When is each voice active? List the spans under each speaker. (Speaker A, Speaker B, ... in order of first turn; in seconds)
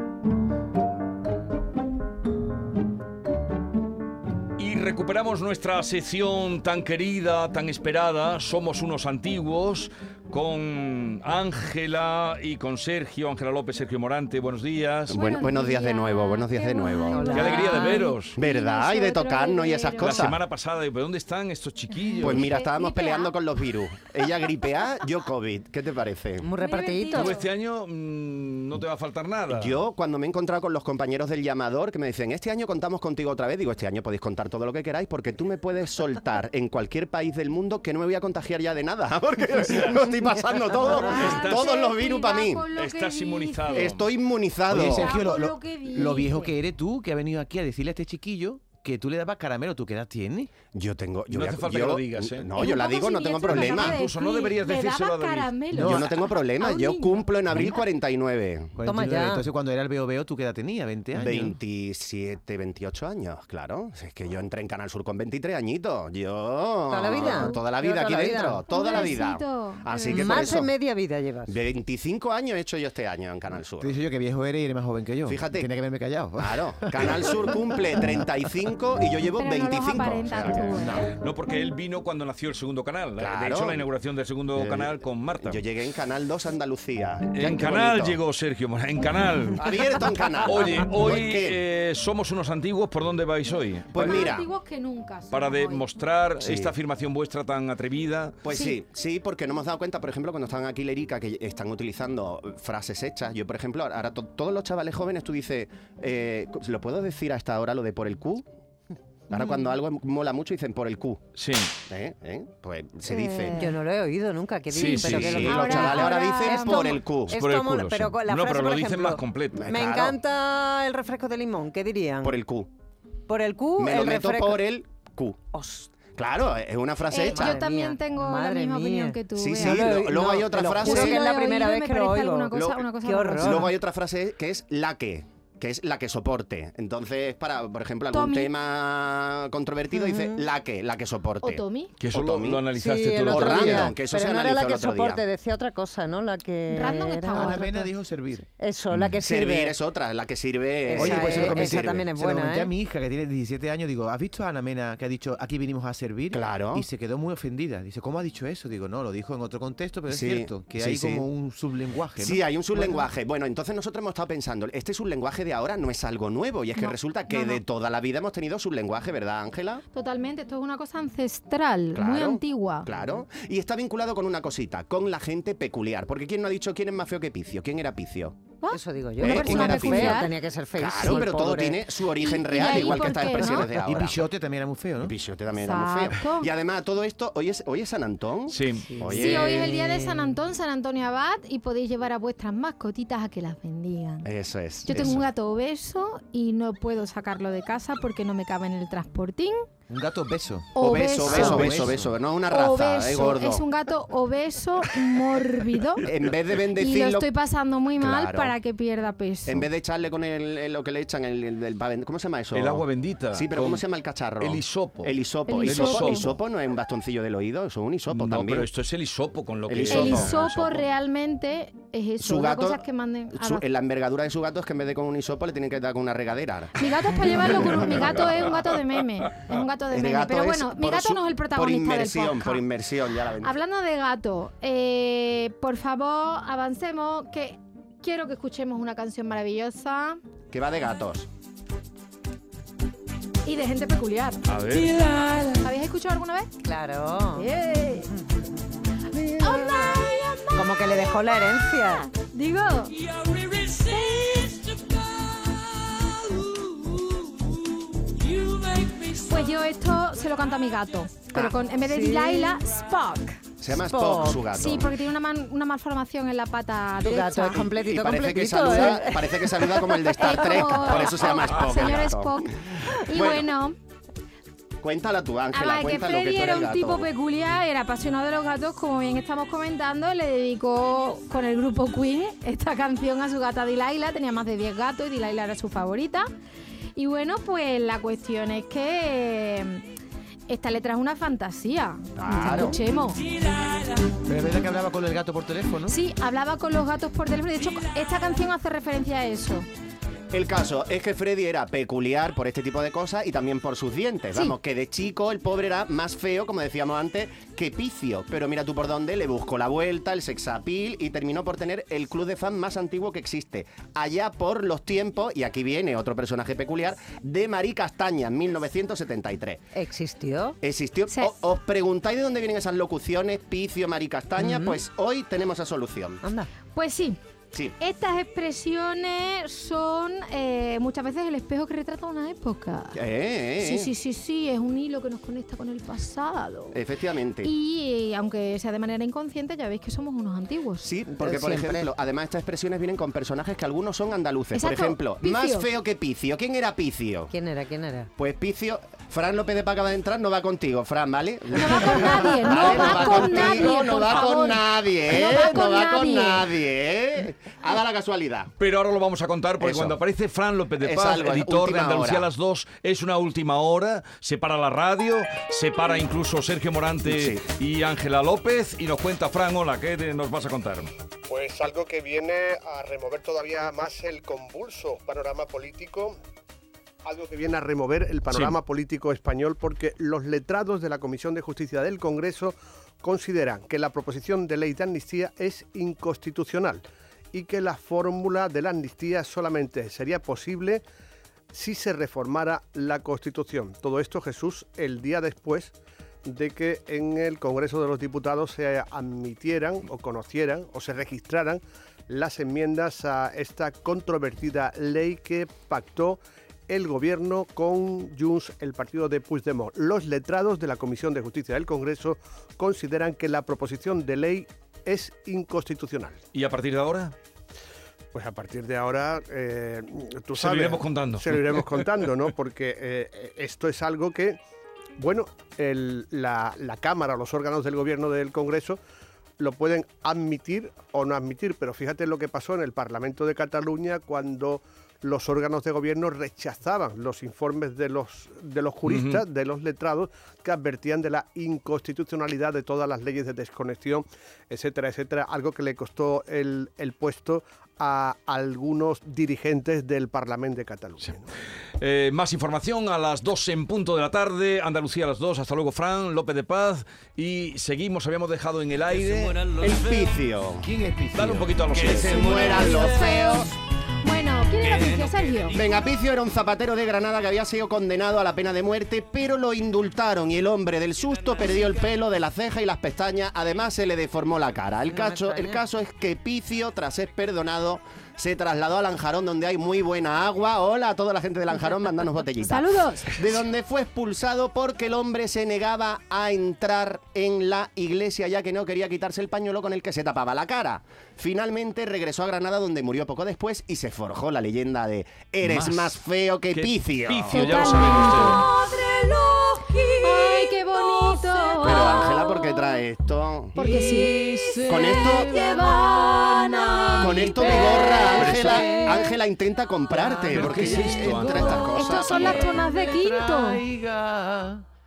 Speaker A: 4.6-15.3, 17.3-18.4, 20.0-22.5, 27.1-29.8, 39.6-40.0, 41.0-41.7, 42.7-44.1, 51.3-52.5, 53.5-55.5, 81.2-85.7, 87.3-94.3, 95.3-98.4, 111.4-111.7, 114.7-115.7, 117.3-119.8, 142.0-144.0, 188.5-189.0, 212.5-213.9, 214.4-216.4, 218.1-220.8, 244.5-244.9, 358.6-370.9, 378.3-378.6, 416.3-417.1, 420.4-422.3, 438.9-439.2, 451.8-460.1, 461.1-462.9, 464.6-465.8, 495.4-496.0, 496.5-498.4, 508.1-509.0, 510.3-512.5
Speaker B: 15.1-17.3, 18.3-20.4, 22.2-26.5, 29.5-42.6, 43.7-45.1, 50.7-54.0, 55.8-58.8, 61.1-70.8, 71.5-74.0, 75.2-75.7, 76.4-80.8, 83.2-83.9, 84.5-88.2, 89.6-91.6, 93.9-94.5, 96.4-96.8, 98.4-108.4, 109.3-111.2, 111.9-113.7, 114.9-117.4, 119.5-120.2, 122.2-122.7, 123.8-125.5, 126.1-127.6, 129.3-131.2, 132.5-132.9, 133.4-142.7, 143.3-145.2, 149.2-152.1, 156.3-156.9, 160.1-161.3, 162.2-169.8, 171.9-178.4, 179.2-184.2, 185.0-189.8, 194.2-195.2, 200.8-203.6, 206.0-207.3, 208.0-208.5, 209.4-218.7, 219.7-220.4, 222.2-222.8, 223.3-228.6, 229.9-233.5, 240.5-241.3, 263.6-265.0, 267.5-272.4, 273.1-273.5, 274.8-277.1, 292.2-292.8, 300.3-319.6, 320.6-326.2, 332.9-333.9, 336.7-337.5, 340.8-347.4, 348.2-358.5, 359.6-360.0, 360.8-362.3, 367.1-367.4, 459.6-460.7, 461.7-463.5, 465.5-497.9, 501.6-503.7, 504.7-505.3, 507.0-512.5
Speaker C: 15.1-20.2, 22.0-23.3, 26.6-27.4, 40.8-43.9, 44.7-46.5, 52.5-57.8, 67.1-67.6, 68.7-70.5, 79.4-81.1, 94.0-95.9, 98.5-98.8, 113.1-113.8, 115.3-117.0, 127.1-129.9, 130.8-133.7, 138.1-138.5, 141.4-141.9, 146.7-147.9, 166.8-167.6, 169.9-172.9, 178.6-180.3, 182.2-183.7, 185.6-186.5, 189.1-194.3, 194.8-199.6, 200.8-201.9, 202.5-206.1, 206.8-209.7, 215.5-216.3, 219.9-223.7, 226.8-232.6, 233.4-240.2, 243.4-244.4, 245.2-246.5, 247.3-248.1, 249.2-253.1, 253.6-254.6, 259.1-263.4, 264.5-267.6, 270.2-273.8, 275.5-286.3, 287.0-289.8, 290.5-293.2, 295.9-299.7, 326.8-327.2, 327.8-333.0, 333.6-336.8, 337.4-340.9, 344.5-345.7, 351.6-356.5, 462.1-465.6, 482.4-483.2, 497.3-499.2, 500.0-502.8, 503.5-504.2, 504.9-508.5, 511.2-513.6
Speaker D: 17.1-18.0, 26.4-27.3, 58.8-59.5, 66.9-68.6, 70.0-71.5, 113.3-122.4, 123.3-124.6, 125.5-125.9, 127.3-132.5, 133.0-133.7, 139.9-140.4, 142.8-147.5, 148.6-149.8, 150.9-152.7, 178.7-181.8, 188.9-189.5, 246.6-247.4, 250.6-252.0, 261.9-262.6, 263.7-264.4, 267.1-270.5, 319.8-320.6, 324.4-324.8, 341.2-341.9, 347.3-348.1, 474.9-475.6
Speaker E: 44.7-50.5, 55.7-56.1, 58.8-61.5, 73.8-77.5, 80.7-81.1, 147.3-148.5, 150.9-163.0, 182.7-185.1, 199.9-202.1, 294.2-296.0, 460.6-462.4, 503.6-509.1, 509.9-514.6
Speaker F: 371.3-376.1, 377.1-390.8, 391.5-395.7, 396.2-416.2, 418.1-424.4, 425.0-428.8, 429.4-451.2